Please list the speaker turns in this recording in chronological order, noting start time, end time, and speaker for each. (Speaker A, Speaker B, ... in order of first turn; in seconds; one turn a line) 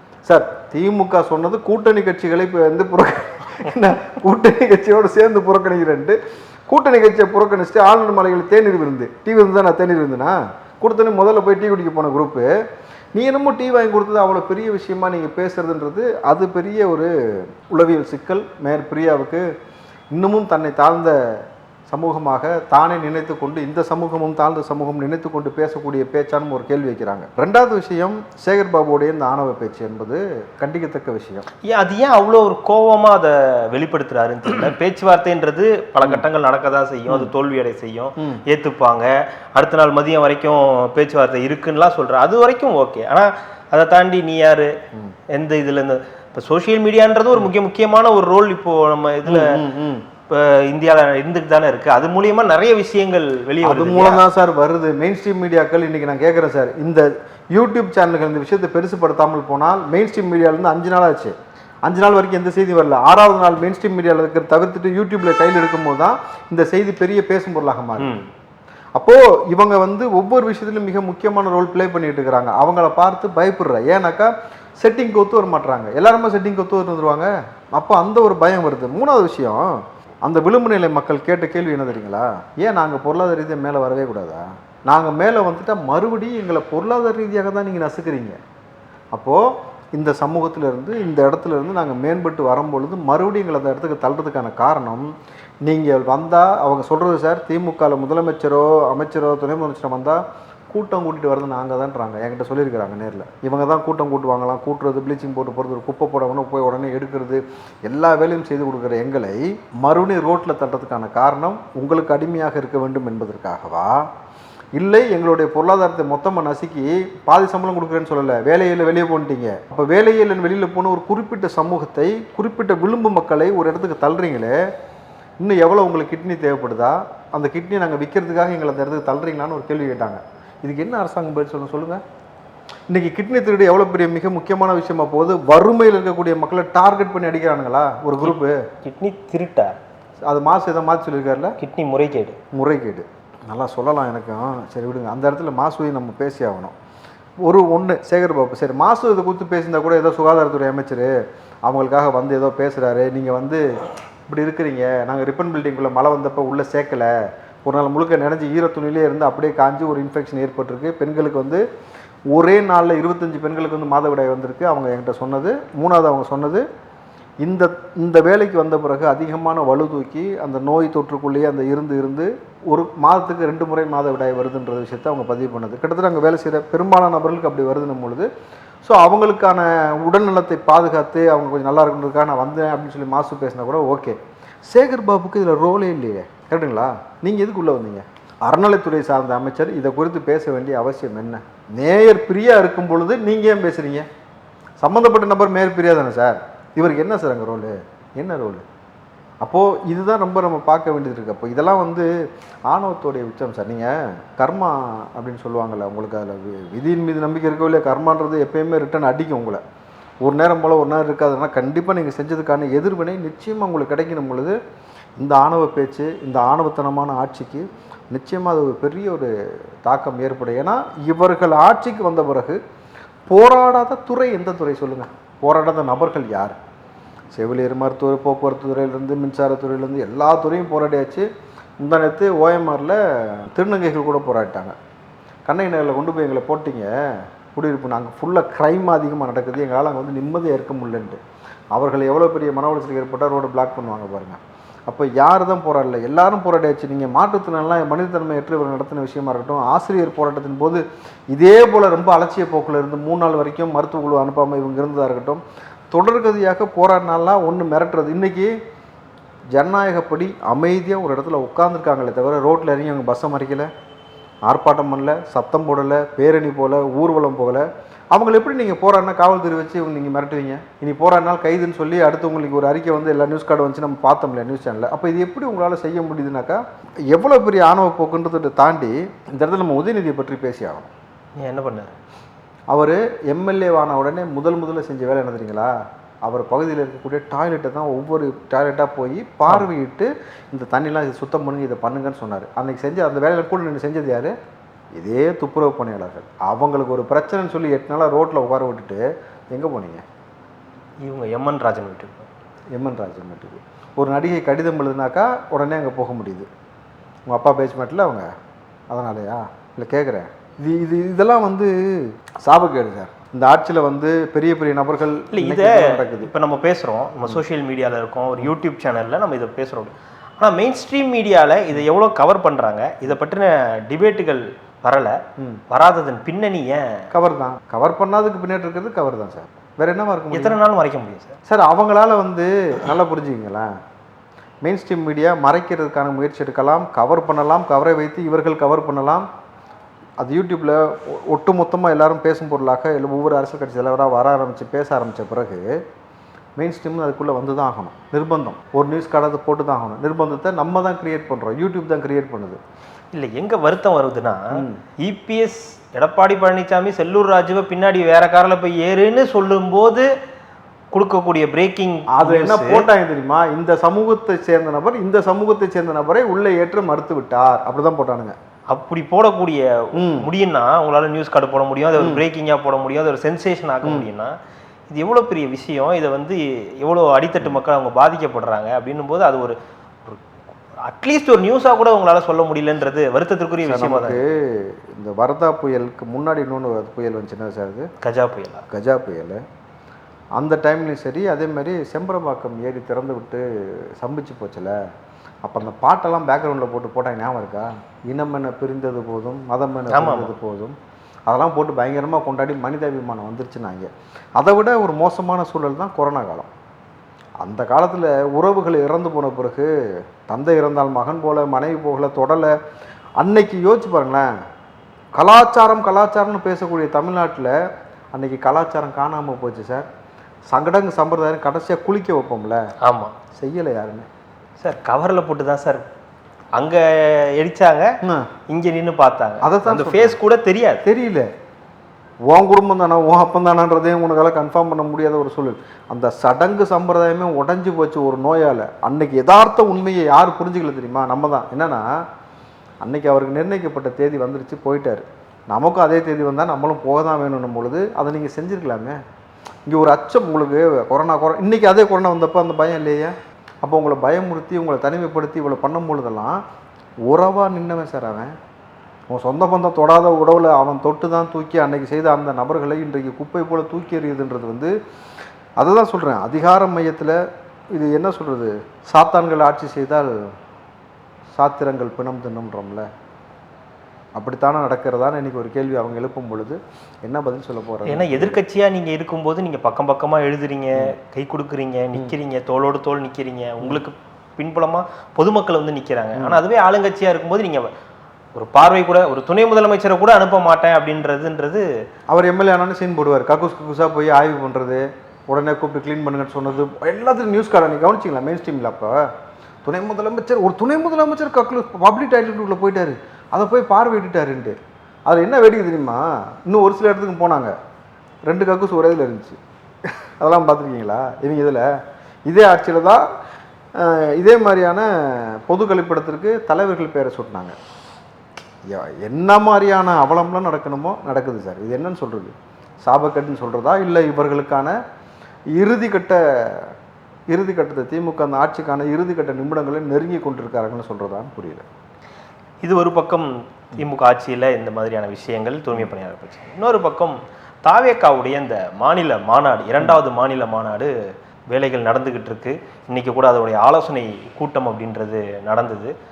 Speaker A: 0.2-6.2
Speaker A: 6.7-12.5
Speaker A: 13.1-19.4
Speaker A: 20.1-31.4
Speaker B: 31.6-44.7
Speaker B: 45.3-49.6
Speaker A: 49.2-50.0
Speaker B: 50.3-54.2
Speaker A: 53.6-61.3
Speaker A: 61.9-68.1
Speaker B: 68.0-68.3
Speaker A: 69.0-88.4
Speaker A: 89.1-95.1
Speaker A: 95.6-114.1
Speaker A: 114.8-124.6
Speaker A: 125.4-132.0
Speaker A: 132.9-138.6
Speaker B: 138.2-139.8
Speaker A: 140.3-141.6
Speaker B: 141.6-142.4
Speaker A: 142.5-146.7
Speaker A: 147.4-151.1
Speaker A: 151.7-153.7
Speaker A: 154.3-157.1
Speaker A: 157.6-161.6
Speaker A: 162.3-166.6
Speaker A: 167.4-178.3
Speaker A: 178.8-194.1
Speaker A: 194.8-198.6
Speaker A: 199.4-202.1
Speaker A: 202.7-209.6
Speaker A: 210.2-214.5
Speaker A: 215.2-219.3
Speaker A: 219.8-222.6
Speaker A: 223.3-226.6
Speaker A: 227.3-231.3
Speaker A: 231.8-234.7
Speaker A: 235.4-236.9
Speaker A: 237.5-241.2
Speaker A: 241.7-258.5
Speaker A: 259.5-263.7
Speaker A: 264.4-280.9
Speaker B: 281.4-281.9
Speaker A: 282.7-294.3
Speaker A: 294.9-300.0
Speaker B: 301.0-302.3
Speaker A: 302.7-306.5
Speaker A: 307.3-308.3
Speaker A: 308.9-316.3
Speaker B: 315.3-325.2
Speaker B: 325.7-327.1
Speaker A: 327.1-330.6
Speaker B: 330.3-331.4
Speaker A: 331.5-333.7
Speaker A: 334.6-339.3
Speaker A: 340.2-345.8
Speaker A: 346.6-352.6
Speaker B: 353.1-360.1
Speaker A: 354.5-354.8
Speaker B: 360.9-362.9
Speaker A: 362.1-368.4
Speaker B: 368.7-374.3
Speaker A: 369.9-370.3
Speaker A: 372.0-372.2
Speaker A: 373.8-374.1
Speaker B: 374.9-380.2
Speaker B: 380.8-384.2
Speaker A: 383.6-387.9
Speaker B: 388.0-388.7
Speaker A: 388.7-389.4
Speaker A: 390.4-394.7
Speaker A: 395.4-400.8
Speaker B: 399.9-400.3
Speaker A: 401.3-406.5
Speaker A: 407.4-409.7
Speaker A: 410.3-412.5
Speaker A: 413.2-414.3
Speaker A: 415.2-417.5
Speaker A: 418.1-419.9
Speaker A: 420.5-422.6
Speaker B: 422.8-423.2
Speaker A: 423.3-424.1
Speaker B: 424.6-425.8
Speaker B: 426.6-427.9
Speaker A: 428.0-428.3
Speaker B: 428.5-430.8
Speaker A: 429.4-430.2
Speaker A: 430.8-431.3
Speaker A: 432.3-441.9
Speaker A: 442.8-448.9
Speaker A: 449.7-456.4
Speaker A: 457.1-458.3
Speaker A: 459.1-464.7
Speaker A: 465.6-467.2
Speaker A: 467.7-470.1
Speaker A: 471.3-472.9
Speaker A: 474.1-478.4
Speaker B: 477.9-487.7
Speaker A: 486.1-486.4
Speaker B: 488.3-491.7
Speaker A: 492.1-499.1
Speaker A: 499.6-504.6
Speaker A: 505.1-507.5
Speaker A: 508.3-509.4
Speaker A: 510.2-511.7
Speaker A: 512.3-513.0
Speaker A: 513.8-517.5
Speaker A: 518.7-524.7
Speaker A: 525.5-526.7
Speaker A: 527.3-531.6
Speaker B: 532.6-540.9
Speaker B: 541.5-545.9